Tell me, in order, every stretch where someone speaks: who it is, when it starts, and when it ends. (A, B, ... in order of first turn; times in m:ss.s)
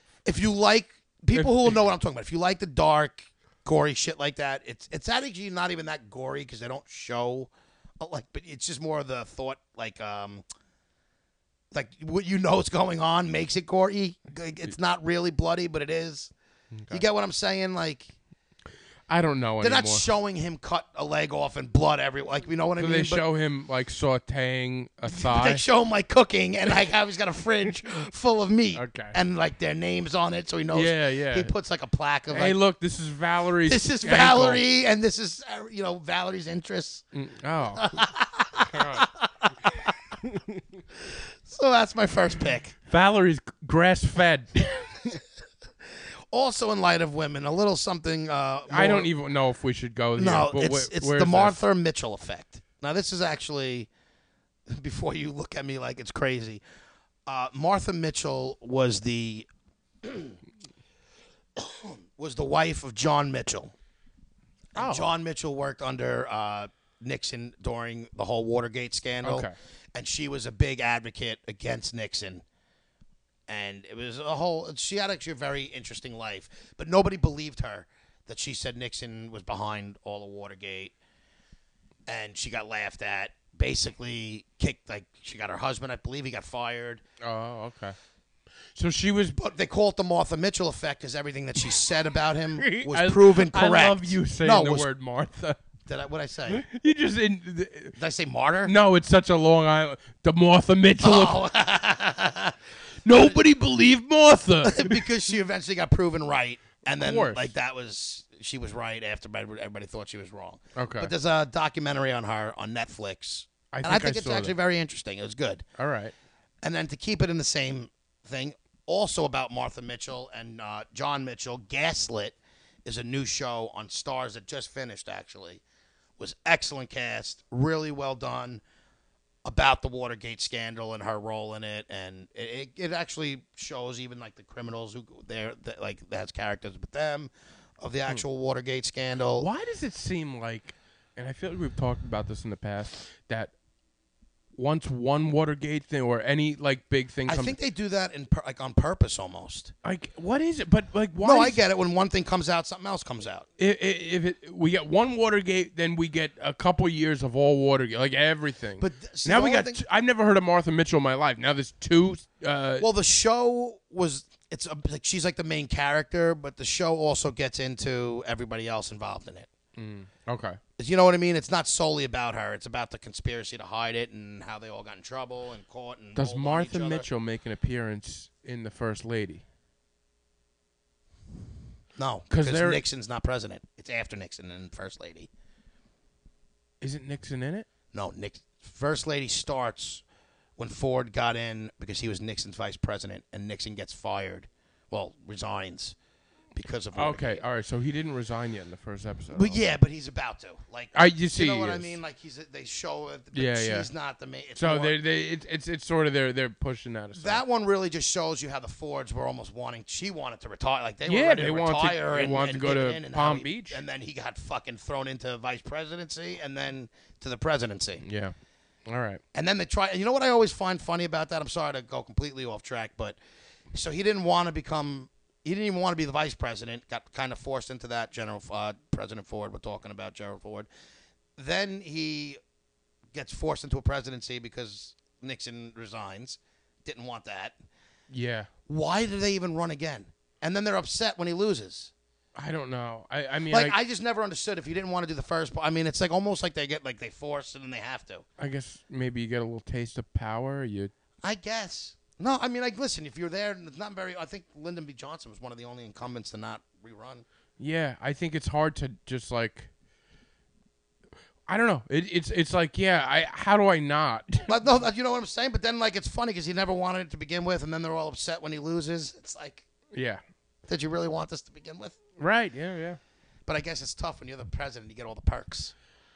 0:00.2-0:10.4 A
0:01.4-0:01.8 B
0:11.7-0:16.3 A
0:16.7-0:17.0 B
0:16.9-0:18.1 A
0:19.1-0:20.0 B
0:19.6-0:23.2 A
0:22.8-0:25.6 B
0:25.1-0:32.6 A
0:28.7-0:29.2 B
0:30.7-0:31.5 B
0:32.3-0:34.6 B
0:33.6-0:37.0 A
0:37.1-0:38.0 B
0:37.8-0:39.9 A
0:38.7-0:39.1 B
0:40.2-0:40.6 B
0:41.1-0:42.7 A
0:42.9-0:45.2 B
0:46.3-0:49.1 A
0:48.7-0:51.6 B
0:50.2-0:53.9 A
0:54.7-0:56.6 A
0:57.3-0:59.5 A
1:00.0-1:00.4 A
1:01.6-1:03.7 A
1:04.7-1:12.4 A
1:04.8-1:05.1 B
1:09.2-1:09.5 B
1:13.5-1:20.9 A
1:22.1-1:27.0 A
1:27.2-1:28.0 B
1:28.7-1:29.4 B
1:29.4-1:34.9 A
1:32.6-1:35.6 B
1:35.8-1:36.6 A
1:36.5-1:38.0 B
1:38.0-1:38.7 A
1:38.6-1:41.4 B
1:41.0-1:42.6 A
1:43.0-1:45.1 B
1:43.1-1:43.4 A
1:44.6-1:55.6 A
1:46.8-1:47.5 B
1:50.7-1:51.1 B
1:53.7-1:54.5 B
1:55.8-1:56.1 B
1:56.6-2:05.6 A
2:06.2-2:08.6 A
2:09.4-2:19.5 A
2:19.4-2:23.5 B
2:24.6-2:27.6 B
2:27.3-2:29.7 A
2:29.8-2:31.6 B
2:31.2-2:33.5 A
2:33.6-2:42.9 B
2:38.8-2:39.8 A
2:42.8-2:49.5 A
2:49.7-2:50.6 B
2:50.8-2:57.0 A
2:56.1-2:59.4 B
3:02.0-3:05.3 A
3:02.3-3:02.8 B
3:06.8-3:07.7 B
3:07.9-3:10.0 A
3:10.6-3:15.9 A
3:16.5-3:17.4 A
3:16.9-3:19.6 B
3:19.3-3:25.0 A
3:20.9-3:22.0 B
3:23.3-3:23.9 B
3:24.6-3:27.4 B
3:27.1-3:38.0 A
3:31.0-3:33.8 B
3:38.0-3:38.3 B
3:38.8-3:39.2 B
3:39.3-3:43.2 A
3:43.7-3:50.7 A
3:51.4-3:52.4 A
3:53.1-3:57.6 A
3:58.1-3:58.5 B
3:58.7-4:01.9 A
4:02.3-4:03.8 B
4:03.5-4:08.2 A
4:08.4-4:10.9 B
4:11.2-4:17.2 A
4:17.6-4:19.7 B
4:21.5-4:24.5 B
4:24.5-4:29.6 A
4:29.9-4:30.2 B
4:30.7-4:32.0 A
4:32.2-4:33.0 B
4:33.5-4:35.7 A